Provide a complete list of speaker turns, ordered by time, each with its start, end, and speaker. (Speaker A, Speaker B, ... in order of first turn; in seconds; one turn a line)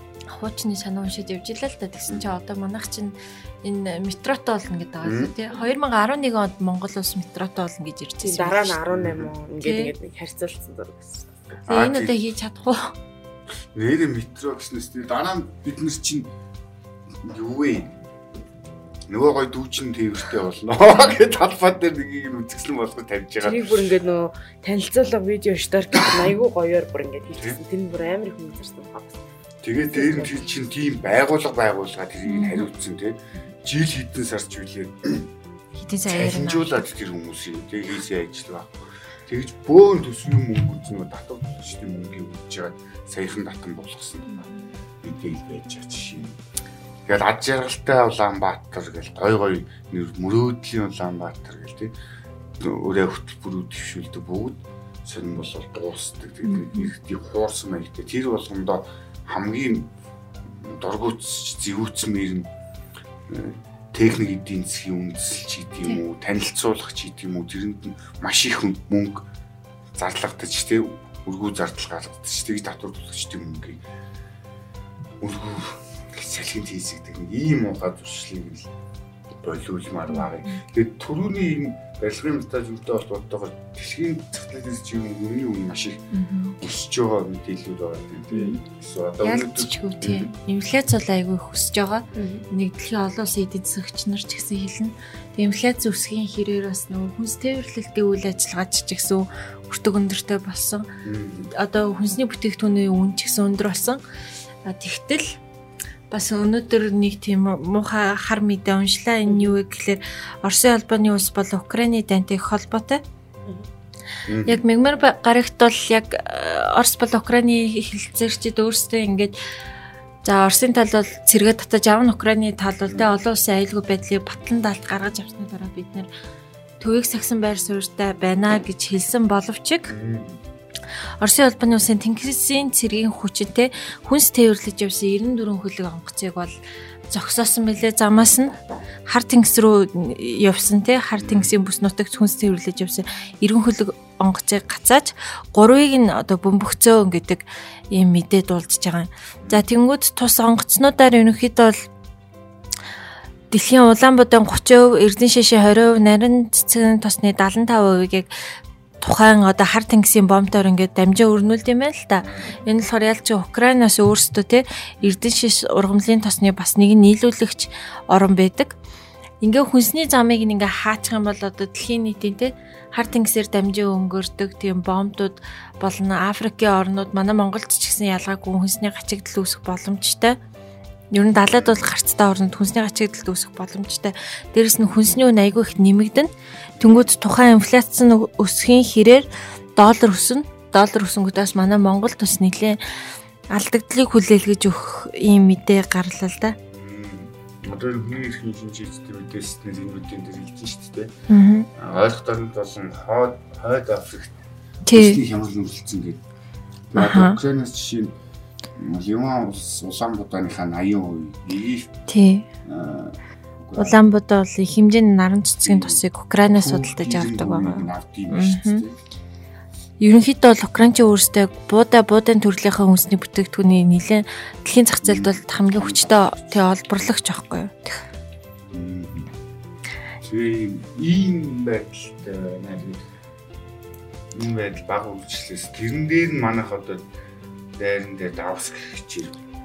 Speaker A: 0.3-8.8
Speaker B: 5.0-5.3
Speaker C: 8.2-11.6
Speaker B: 8.9-9.3
Speaker A: 9.6-9.9
Speaker A: 11.7-12.9
Speaker B: 11.7-12.1
Speaker B: 13.7-16.3
Speaker B: 17.2-17.9
Speaker B: 19.1-24.0
Speaker C: 23.4-29.2
Speaker B: 29.6-35.3
Speaker C: 29.9-30.4
Speaker A: 32.2-32.7
Speaker A: 35.8-36.7
Speaker B: 36.1-44.4
Speaker A: 44.3-44.7
Speaker B: 45.0-46.4
Speaker B: 47.0-51.9
Speaker B: 52.6-59.9
Speaker A: 56.4-56.9
Speaker B: 60.4-62.5
Speaker B: 63.3-69.2
Speaker B: 69.9-73.8
Speaker B: 75.2-78.7
Speaker B: 79.4-86.0
Speaker A: 80.1-80.6
Speaker A: 86.1-86.6
Speaker B: 86.6-90.3
Speaker A: 89.2-100.9
Speaker C: 92.1-92.5
Speaker B: 101.0-101.5
Speaker A: 101.5-104.0
Speaker A: 104.6-105.4
Speaker A: 106.1-113.0
Speaker C: 109.3-109.5
Speaker B: 114.3-114.6
Speaker A: 114.5-119.4
Speaker A: 120.2-126.1
Speaker A: 126.8-129.9
Speaker B: 129.9-130.4
Speaker A: 131.2-136.6
Speaker A: 137.1-138.5
Speaker A: 139.1-151.9
Speaker B: 141.2-141.5
Speaker A: 153.5-158.3
Speaker A: 159.0-168.7
Speaker B: 162.2-162.5
Speaker A: 169.4-180.4
Speaker A: 181.1-192.8
Speaker B: 181.5-181.8
Speaker B: 186.8-187.1
Speaker A: 193.5-196.6
Speaker B: 196.7-201.1
Speaker A: 201.3-201.7
Speaker B: 201.8-204.3
Speaker A: 204.8-205.2
Speaker B: 204.9-206.2
Speaker B: 206.9-208.1
Speaker A: 206.9-207.4
Speaker B: 208.8-211.9
Speaker A: 212.1-212.5
Speaker B: 212.6-214.0
Speaker A: 213.8-218.8
Speaker B: 215.6-219.0
Speaker A: 220.0-228.0
Speaker B: 225.0-226.6
Speaker B: 228.7-229.3
Speaker B: 230.2-233.1
Speaker B: 234.3-237.1
Speaker B: 237.8-239.4